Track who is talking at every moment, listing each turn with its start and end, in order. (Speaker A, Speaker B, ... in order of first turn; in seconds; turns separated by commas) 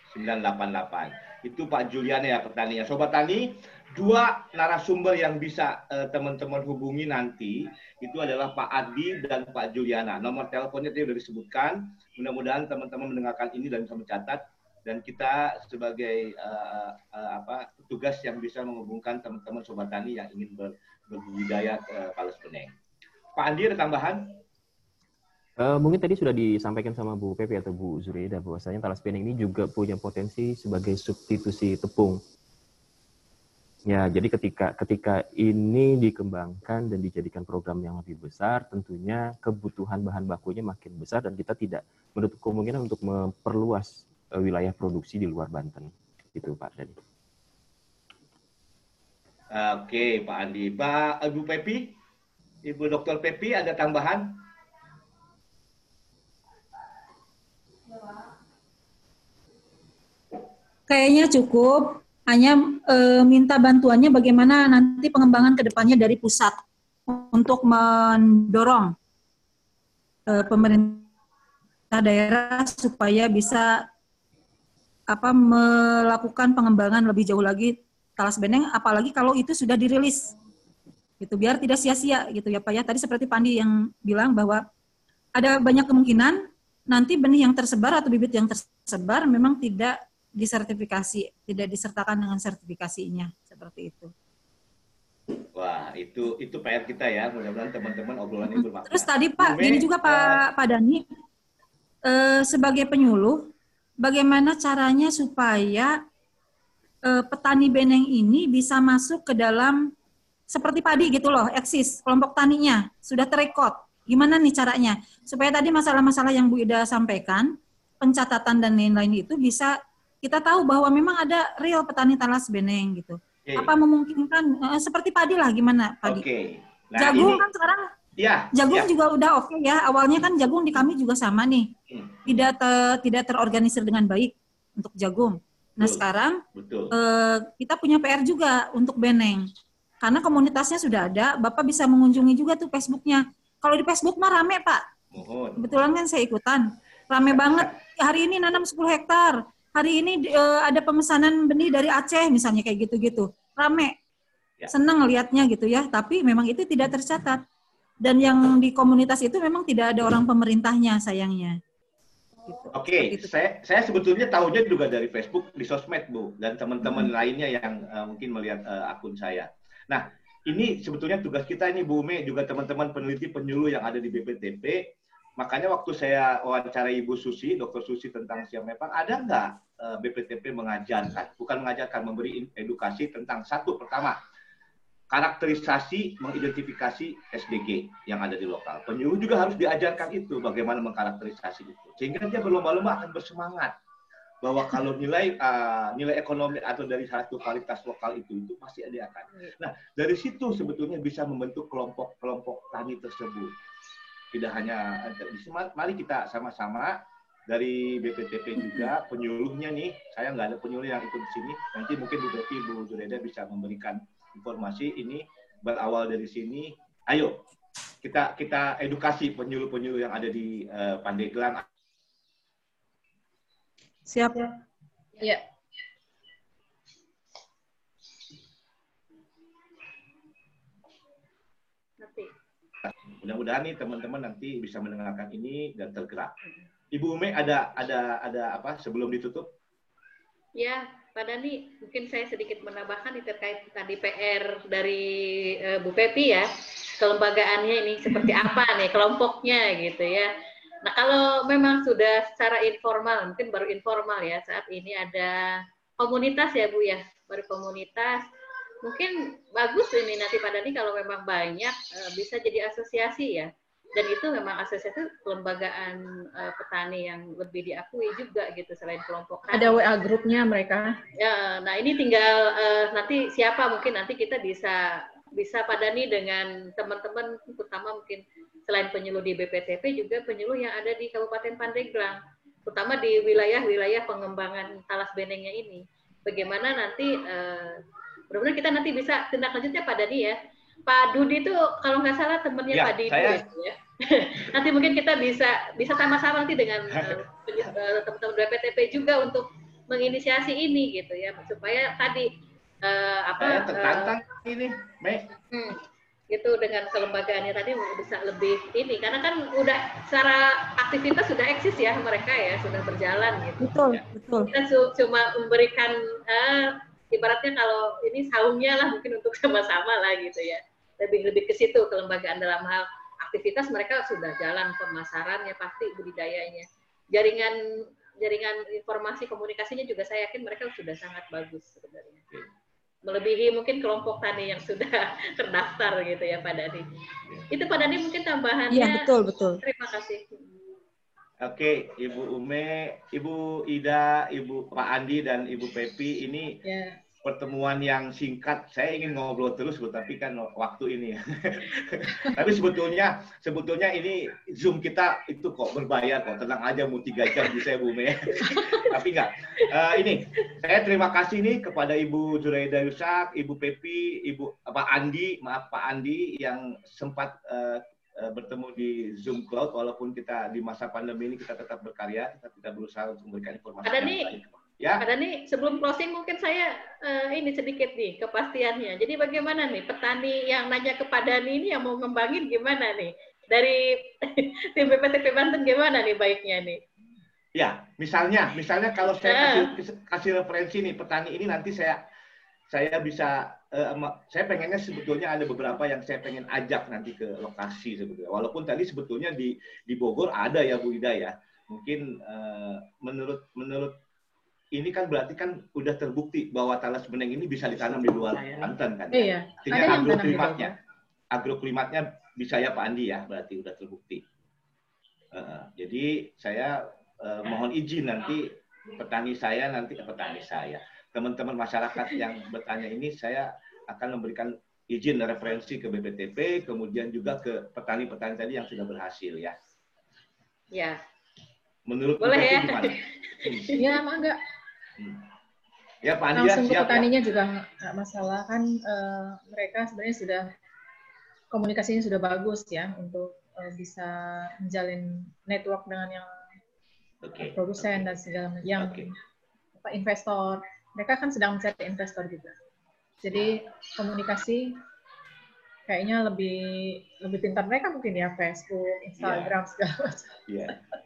Speaker A: 0.1-22.7, Speaker A: 23.4-24.3, Speaker B: 25.6-32.2, Speaker B: 33.9-47.0, Speaker A: 49.5-52.0, Speaker A: 52.6-54.4, Speaker C: 60.9-69.0, Speaker C: 70.3-71.1, Speaker C: 71.9-73.9, Speaker C: 75.1-80.3, Speaker C: 81.2-84.7, Speaker C: 85.4-94.1, Speaker A: 95.5-100.4, Speaker C: 98.5-101.0, Speaker C: 102.1-106.0, Speaker C: 107.0-109.9, Speaker C: 110.5-126.2, Speaker A: 123.5-123.7, Speaker A: 126.0-127.5, Speaker C: 127.0-127.9, Speaker A: 128.2-128.9, Speaker C: 128.5-131.7, Speaker C: 132.2-136.4, Speaker A: 135.8-136.9, Speaker C: 136.9-139.5, Speaker C: 140.0-144.8, Speaker A: 145.1-145.8, Speaker C: 145.6-154.0, Speaker C: 154.7-157.4, Speaker C: 158.0-161.6, Speaker C: 162.5-163.3, Speaker A: 162.7-184.2, Speaker A: 185.1-193.7, Speaker A: 194.4-203.5, Speaker A: 204.3-217.4, Speaker A: 218.0-221.7, Speaker C: 224.1-224.5, Speaker D: 225.2-225.4, Speaker E: 232.0-232.3, Speaker A: 232.9-236.3, Speaker A: 236.9-239.5, Speaker E: 240.6-246.5, Speaker E: 247.0-250.3, Speaker E: 250.8-258.3, Speaker E: 258.8-269.8, Speaker D: 269.5-271.0, Speaker E: 271.2-302.3, Speaker A: 292.7-293.4, Speaker A: 296.9-297.2, Speaker E: 302.8-304.2, Speaker A: 303.4-305.3, Speaker E: 305.5-313.7, Speaker C: 313.6-314.5, Speaker E: 314.5-327.6, Speaker E: 328.2-332.2, Speaker E: 333.0-336.9, Speaker E: 337.5-339.1, Speaker C: 338.7-339.6, Speaker E: 339.6-340.5, Speaker A: 341.4-346.6, Speaker D: 346.6-347.0, Speaker A: 347.2-375.1, Speaker E: 373.8-374.3, Speaker E: 375.0-386.8, Speaker A: 387.6-392.0, Speaker E: 389.2-389.7, Speaker A: 392.7-403.9, Speaker A: 404.7-410.7, Speaker D: 409.1-410.8, Speaker A: 411.3-414.2, Speaker A: 415.3-429.6, Speaker E: 430.7-431.0, Speaker A: 431.9-433.7, Speaker E: 432.2-433.9, Speaker D: 433.8-434.4, Speaker A: 436.0-437.1, Speaker D: 436.4-440.5, Speaker D: 441.5-446.3, Speaker A: 447.2-448.1, Speaker D: 447.4-449.1, Speaker A: 448.8-449.1, Speaker D: 449.8-452.5, Speaker D: 453.2-454.8, Speaker D: 455.9-460.4, Speaker A: 459.2-459.6, Speaker A: 460.5-460.8